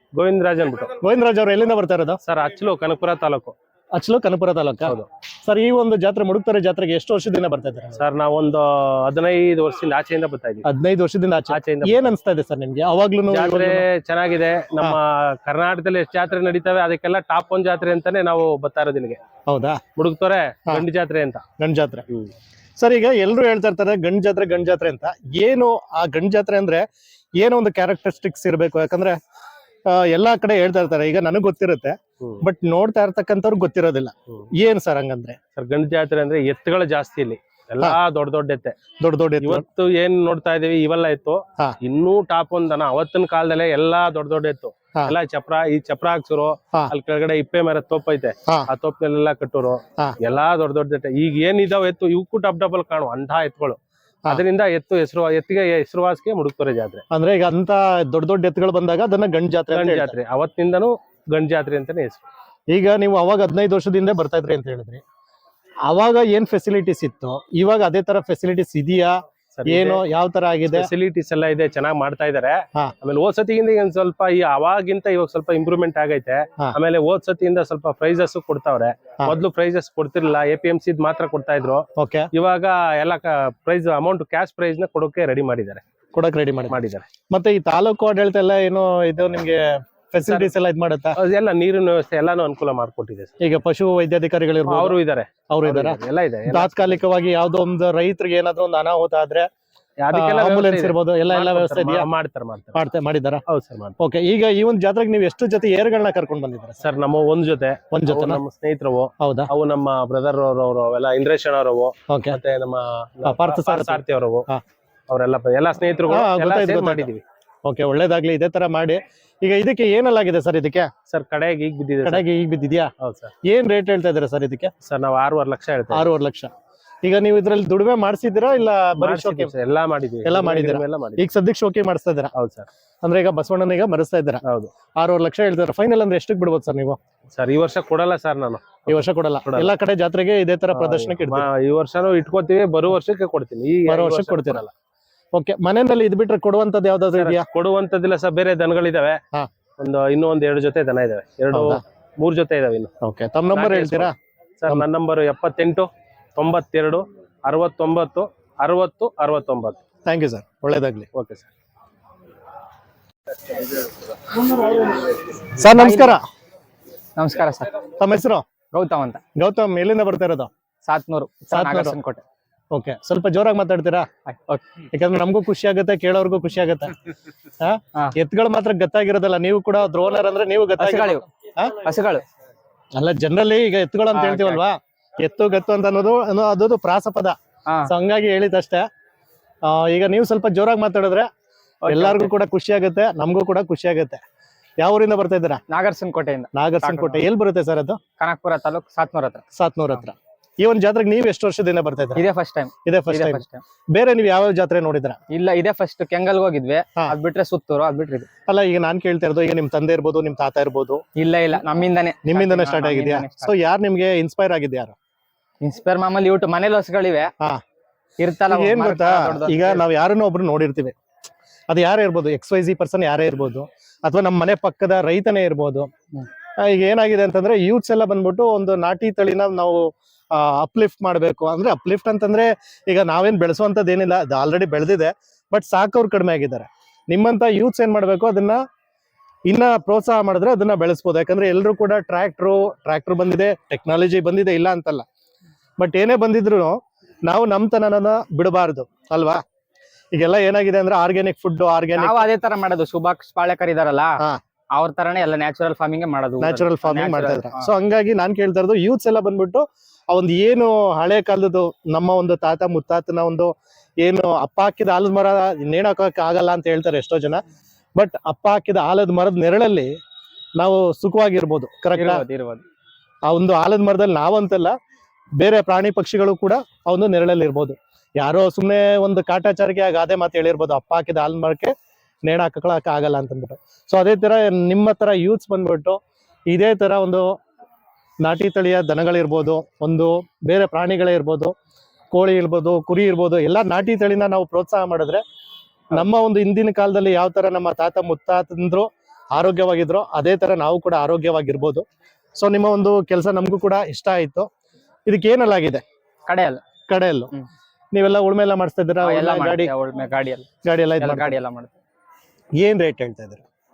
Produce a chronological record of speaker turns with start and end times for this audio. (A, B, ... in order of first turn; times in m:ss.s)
0:00.1-0:00.9 A
0:01.0-0:02.2 B
0:02.2-0:03.5 A
0:03.9-0:08.0 B
0:08.0-0:10.6 A
0:10.6-0:13.8 B
0:11.5-0:12.1 A
0:13.3-0:19.2 A
0:19.5-0:19.8 B
0:20.0-0:21.4 A
0:21.6-0:22.0 B
0:22.8-0:26.8 B
0:27.4-0:29.2 B
0:29.9-0:35.4 B
0:35.6-0:38.8 A
0:39.0-0:39.6 B
0:39.4-0:57.0 A
0:57.1-1:00.2 B
0:59.7-1:02.2 A
1:02.7-1:05.0 B
1:05.9-1:10.9 B
1:09.5-1:10.0 A
1:10.7-1:25.8 A
1:22.0-1:22.3 B
1:26.1-1:31.2 B
1:26.7-1:27.1 A
1:31.2-1:33.3 A
1:33.4-1:35.0 B
1:34.7-1:37.0 A
1:35.5-1:39.5 B
1:40.0-1:42.8 A
1:40.1-1:42.1 B
1:42.7-1:43.4 B
1:43.5-1:43.9 A
1:44.0-1:46.8 B
1:46.8-1:54.5 A
1:47.9-1:48.4 B
1:49.2-1:49.5 B
1:52.1-1:52.4 B
1:53.2-1:54.6 B
1:55.1-1:57.2 A
1:56.1-1:57.1 B
1:57.6-2:00.9 B
2:01.1-2:02.2 A
2:02.0-2:02.9 B
2:03.0-2:03.3 A
2:03.4-2:04.7 B
2:04.8-2:06.1 A
2:05.9-2:06.5 B
2:07.0-2:09.5 B
2:09.0-2:11.2 A
2:10.2-2:12.3 B
2:12.4-2:12.7 A
2:13.0-2:14.4 B
2:14.4-2:14.7 A
2:15.0-2:17.0 B
2:17.3-2:19.7 A
2:18.9-2:21.5 B
2:20.7-2:24.7 A
2:23.8-2:24.6 B
2:25.3-2:27.4 B
2:27.2-2:29.2 A
2:29.8-2:32.9 A
2:31.5-2:31.8 B
2:33.0-2:34.1 B
2:33.5-2:39.8 A
2:40.0-2:41.1 B
2:41.1-2:41.5 A
2:45.6-2:46.2 B
2:45.7-2:46.2 C
2:47.2-2:47.8 C
2:48.0-2:48.4 B
2:48.7-2:49.2 C
2:49.4-2:50.5 B
2:50.8-2:52.2 C
2:51.5-2:52.0 B
2:52.7-2:54.0 B
2:54.3-2:54.8 C
2:54.9-2:56.9 B
2:57.6-3:01.7 B
3:00.8-3:01.2 C
3:01.8-3:02.2 C
3:03.0-3:07.3 B
3:04.1-3:04.6 C
3:07.9-3:08.9 B
3:09.6-3:11.3 B
3:11.8-3:12.3 C
3:11.9-3:14.2 B
3:14.8-3:15.6 B
3:15.7-3:17.2 C
3:16.5-3:18.0 B
3:18.2-3:19.4 C
3:19.5-3:22.2 B
3:22.2-3:23.6 C
3:22.8-3:25.2 B
3:25.3-3:28.3 C
3:28.5-3:31.0 B
3:31.2-3:33.5 C
3:32.2-3:35.0 B
3:35.6-3:37.3 C
3:38.2-3:39.8 C
3:38.5-3:40.9 B
3:41.7-3:45.9 B
3:46.6-3:58.6 B
3:59.5-4:05.0 B
4:05.8-4:09.4 B
4:10.1-4:12.2 B
4:12.0-4:14.2 C
4:14.7-4:17.7 C
4:16.4-4:27.4 B
4:28.0-4:29.9 B
4:30.6-4:32.2 B
4:31.9-4:32.6 C
4:33.3-4:34.7 B
4:35.4-4:41.7 B
4:42.2-4:47.3 B
4:48.2-4:51.5 B
4:52.1-4:55.2 B
4:55.9-5:01.8 B
5:02.4-5:04.5 B
5:05.1-5:05.8 B
5:06.3-5:06.6 C
5:06.9-5:07.3 B
5:07.9-5:09.7 B
5:09.0-5:10.5 C
5:10.6-5:11.4 B
5:11.0-5:11.7 C
5:12.6-5:13.4 B